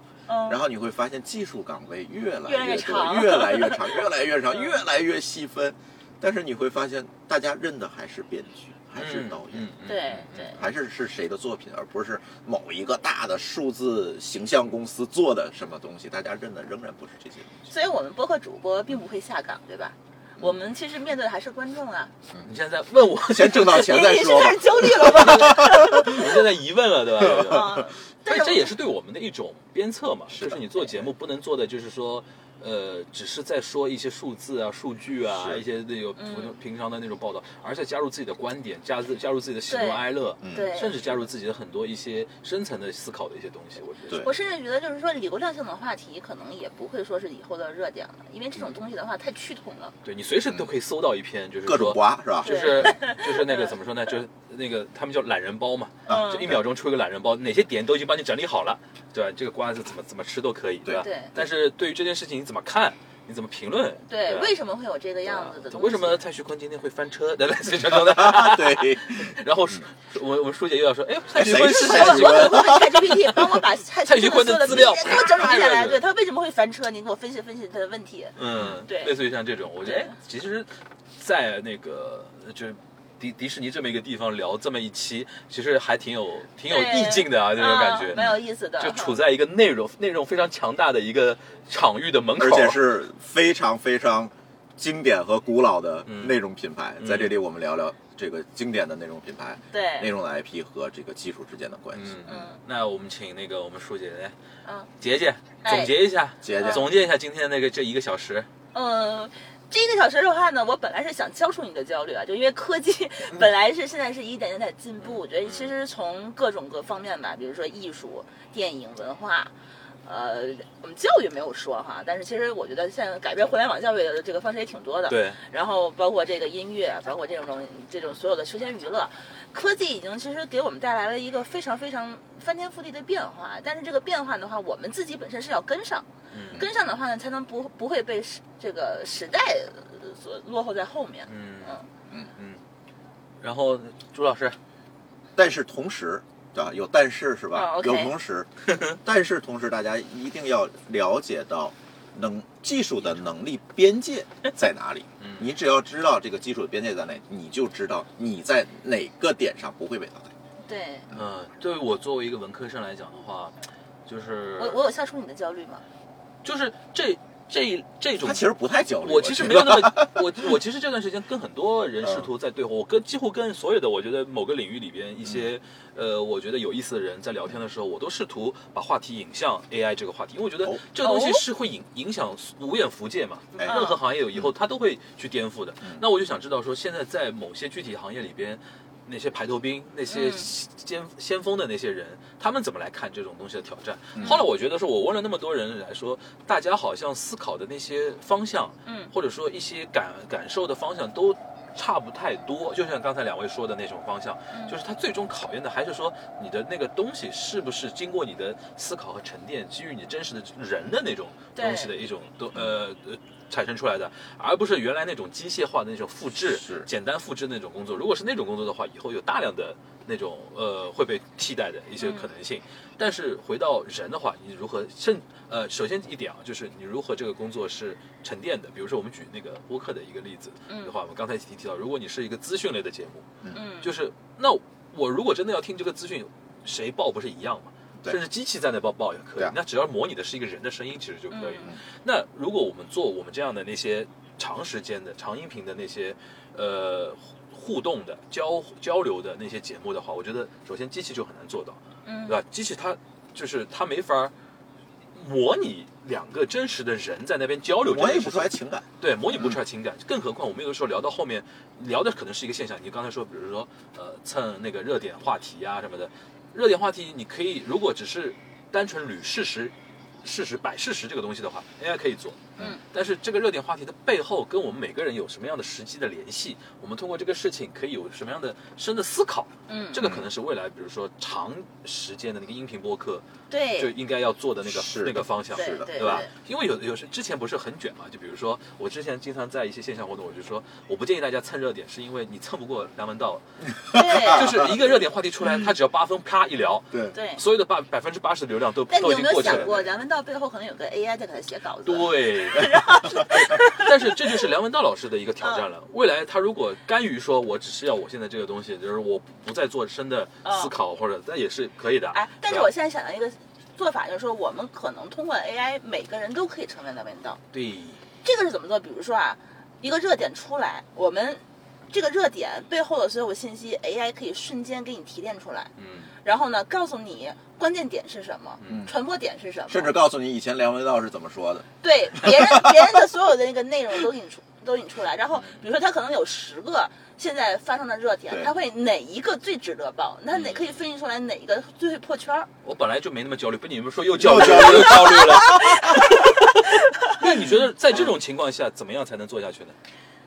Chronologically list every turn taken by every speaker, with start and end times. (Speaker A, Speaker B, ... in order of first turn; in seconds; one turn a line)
Speaker A: 0.3-0.6
Speaker B: 0.5-9.7
Speaker A: 2.5-4.0
Speaker C: 8.9-10.6
Speaker A: 9.8-10.6
Speaker B: 10.5-17.7
Speaker A: 17.7-22.1
Speaker C: 22.4-23.9
Speaker B: 23.2-26.2
Speaker A: 23.6-26.4
Speaker C: 25.0-44.2
Speaker B: 27.2-27.7
Speaker A: 27.4-28.7
Speaker B: 30.3-30.6
Speaker B: 35.4-35.6
Speaker A: 36.1-36.5
Speaker A: 39.7-41.1
Speaker B: 40.4-40.7
Speaker A: 44.1-49.9
Speaker C: 50.0-64.5
Speaker B: 51.6-52.9
Speaker A: 52.4-53.7
Speaker B: 56.1-56.6
Speaker A: 56.1-56.5
Speaker A: 61.0-61.4
Speaker A: 64.1-66.2
Speaker C: 65.2-76.0
Speaker B: 67.9-69.3
Speaker B: 71.3-73.0
Speaker A: 71.6-79.1
Speaker B: 74.7-74.9
Speaker C: 78.3-92.9
Speaker A: 79.8-80.1
Speaker A: 86.7-89.2
Speaker B: 92.4-102.3
Speaker C: 96.1-96.3
Speaker C: 97.0-97.4
Speaker A: 99.7-100.1
Speaker C: 102.0-104.3
Speaker A: 102.2-102.6
Speaker C: 105.0-108.5
Speaker A: 105.6-105.9
Speaker B: 106.4-106.9
Speaker A: 106.6-106.8
Speaker A: 108.7-119.5
Speaker C: 115.0-115.7
Speaker A: 120.0-141.8
Speaker C: 125.1-125.4
Speaker C: 136.3-136.6
Speaker C: 141.3-141.8
Speaker C: 142.3-142.6
Speaker C: 143.4-144.6
Speaker B: 145.3-160.3
Speaker A: 147.5-148.1
Speaker C: 148.7-148.9
Speaker C: 155.2-155.5
Speaker A: 160.6-161.1
Speaker C: 161.1-164.8
Speaker A: 164.6-165.8
Speaker C: 166.4-168.5
Speaker B: 168.2-170.5
Speaker C: 169.0-233.3
Speaker B: 172.0-172.3
Speaker A: 181.0-181.4
Speaker A: 183.5-184.0
Speaker A: 190.1-190.5
Speaker B: 194.2-194.4
Speaker A: 198.8-199.1
Speaker A: 204.5-204.8
Speaker A: 211.6-211.9
Speaker B: 216.5-216.9
Speaker A: 222.0-222.3
Speaker A: 233.5-233.9
Speaker C: 233.8-254.3
Speaker A: 241.3-241.7
Speaker A: 252.0-252.4
Speaker C: 255.1-283.2
Speaker B: 257.8-258.9
Speaker A: 279.7-280.0
Speaker B: 280.0-280.3
Speaker A: 283.5-283.9
Speaker C: 283.8-299.7
Speaker B: 284.6-286.3
Speaker A: 285.5-286.3
Speaker A: 293.9-294.6
Speaker B: 293.9-294.7
Speaker A: 297.1-297.4
Speaker A: 298.9-303.9
Speaker B: 299.4-299.8
Speaker C: 301.8-302.8
Speaker C: 303.3-312.7
Speaker A: 310.4-310.7
Speaker A: 312.1-317.4
Speaker C: 317.5-318.0
Speaker A: 318.2-325.7
Speaker C: 325.8-326.1
Speaker A: 326.2-329.9
Speaker C: 328.6-328.9
Speaker B: 328.7-328.9
Speaker B: 329.7-331.6
Speaker A: 331.8-342.5
Speaker B: 332.2-332.6
Speaker C: 335.3-335.6
Speaker C: 340.3-340.7
Speaker C: 342.6-349.8
Speaker B: 344.2-346.0
Speaker A: 344.4-347.2
Speaker B: 347.3-348.0